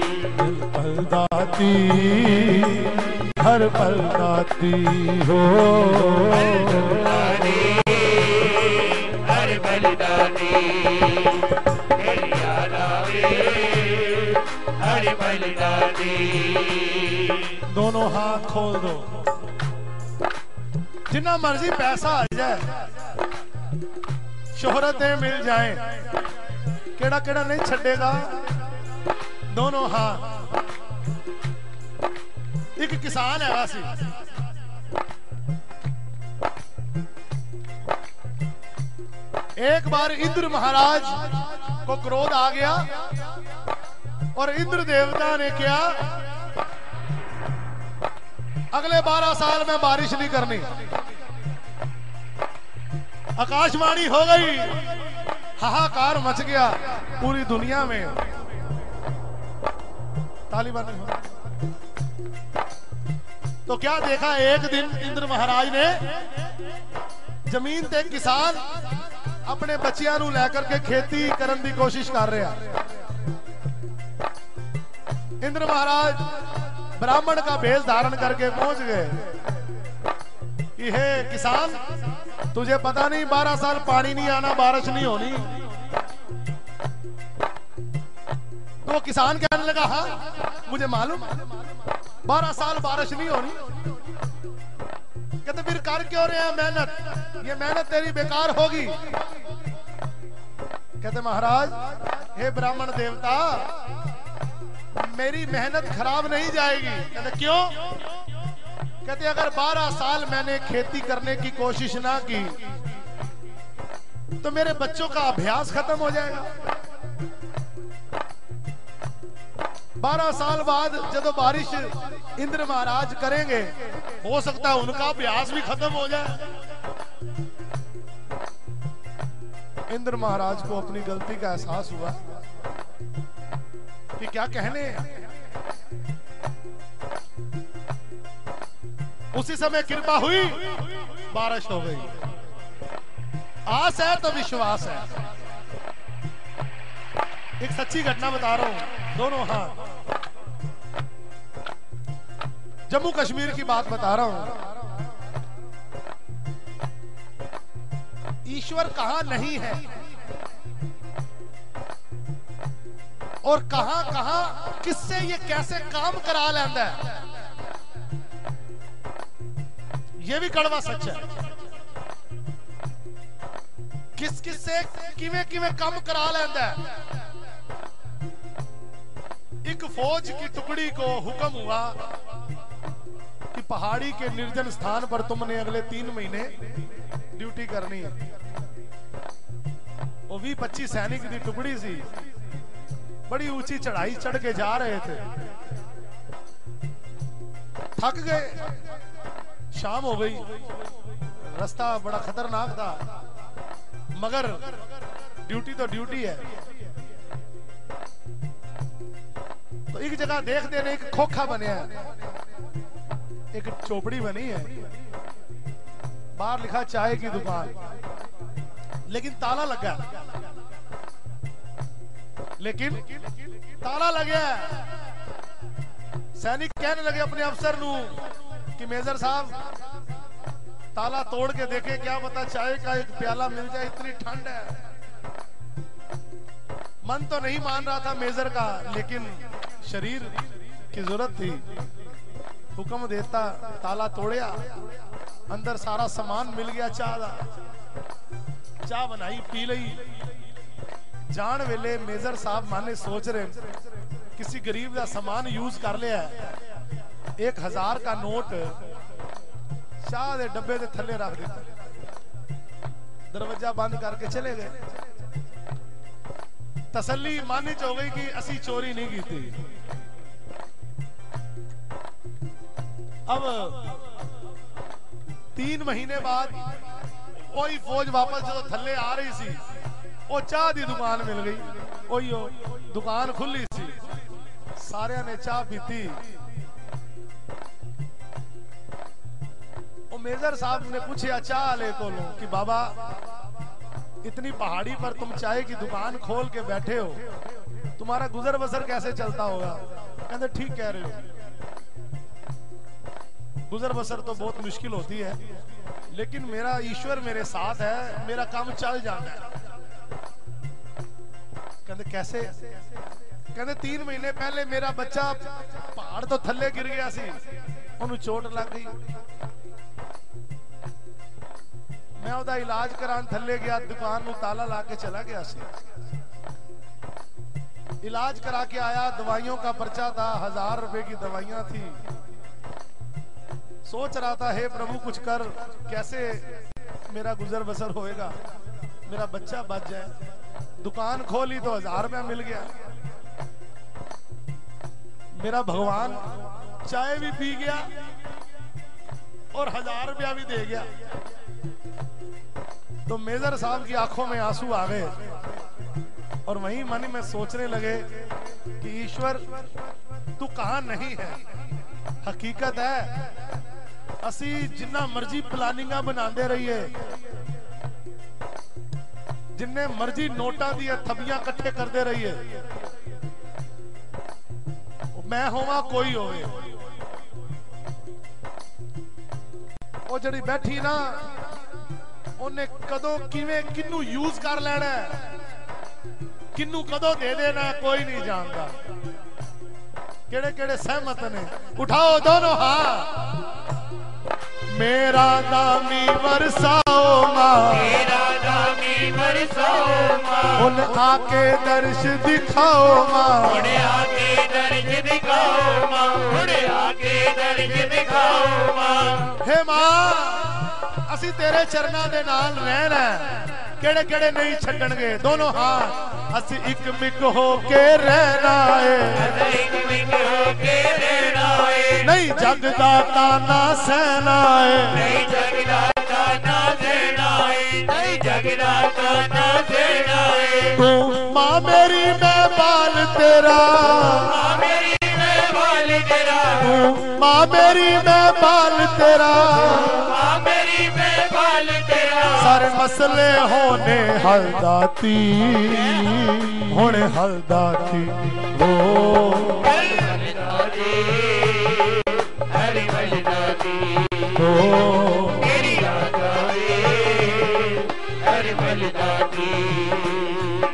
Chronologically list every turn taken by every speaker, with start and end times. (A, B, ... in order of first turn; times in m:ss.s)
0:00.2-0:07.3 A
0:07.0-0:17.5 B
0:17.6-0:19.3 A
0:21.1-0:22.9 A
0:24.5-0:26.2 A
0:27.0-0:28.6 A
0:29.5-0:30.5 A
0:32.8-0:34.1 A
0:39.6-0:43.1 A
0:44.3-0:46.2 A
0:48.7-0:50.8 A
0:53.4-0:58.2 A
1:00.5-1:01.2 A
1:03.6-1:06.4 A
1:07.4-1:08.8 A
1:09.4-1:12.8 A
1:15.4-1:19.4 A
1:20.8-1:21.9 A
1:22.5-1:25.6 A
1:28.8-1:31.6 A
1:32.2-1:33.9 A
1:35.4-1:39.2 A
1:41.0-1:43.8 A
1:45.0-1:48.0 A
1:49.0-1:52.7 A
1:54.4-1:56.5 A
2:00.0-2:06.5 A
2:09.9-2:12.2 A
2:14.2-2:15.2 A
2:19.3-2:22.2 A
2:23.6-2:25.2 A
2:27.6-2:29.9 A
2:32.9-2:34.8 A
2:38.4-2:40.0 A
2:43.4-2:47.2 A
2:50.2-2:51.4 A
2:54.2-2:57.0 A
2:59.6-3:02.1 A
3:03.5-3:08.2 A
3:10.3-3:12.1 A
3:13.3-3:15.3 A
3:18.0-3:18.8 A
3:19.7-3:20.6 A
3:21.4-3:23.0 A
3:24.1-3:24.8 A
3:25.4-3:26.5 A
3:29.9-3:32.1 A
3:33.5-3:34.9 A
3:36.4-3:37.8 A
3:39.1-3:40.2 A
3:42.6-3:45.0 A
3:46.3-3:49.7 A
3:50.9-3:54.8 A
3:57.0-4:01.8 A
4:02.7-4:04.9 A
4:05.5-4:07.5 A
4:08.8-4:10.1 A
4:11.3-4:13.8 A
4:14.3-4:16.6 A
4:17.4-4:18.8 A
4:20.0-4:21.7 A
4:23.3-4:24.9 A
4:26.9-4:29.7 A
4:33.3-4:34.1 A
4:35.5-4:36.7 A
4:37.4-4:39.6 A
4:40.3-4:44.0 A
4:44.7-4:46.4 A
4:50.1-4:53.2 A
4:54.2-4:57.2 A
4:58.0-5:01.3 A
5:03.7-5:05.4 A
5:06.1-5:09.4 A
5:11.8-5:12.8 A
5:13.5-5:17.4 A
5:18.0-5:19.1 A
5:22.2-5:25.7 A
5:28.0-5:32.0 A
5:33.8-5:38.3 A
5:39.0-5:40.2 A
5:40.8-5:42.8 A
5:45.3-5:47.9 A
5:49.5-5:50.9 A
5:53.0-5:55.4 A
5:56.4-5:59.8 A
6:00.4-6:01.5 A
6:02.2-6:03.3 A
6:04.2-6:07.2 A
6:09.5-6:12.6 A
6:15.1-6:16.7 A
6:20.1-6:21.4 A
6:22.4-6:25.3 A
6:26.5-6:28.8 A
6:30.3-6:33.5 A
6:34.7-6:38.0 A
6:37.9-6:40.6 B
6:40.5-6:43.8 A
6:43.7-6:49.3 B
6:49.3-6:59.4 A
6:59.4-7:02.0 B
7:02.0-7:05.2 A
7:05.1-7:10.7 B
7:10.6-7:14.6 A
7:14.5-7:16.6 B
7:16.6-7:20.2 A
7:20.1-7:22.4 B
7:22.3-7:29.9 A
7:29.9-7:34.3 B
7:34.3-7:35.8 A
7:35.6-7:40.6 B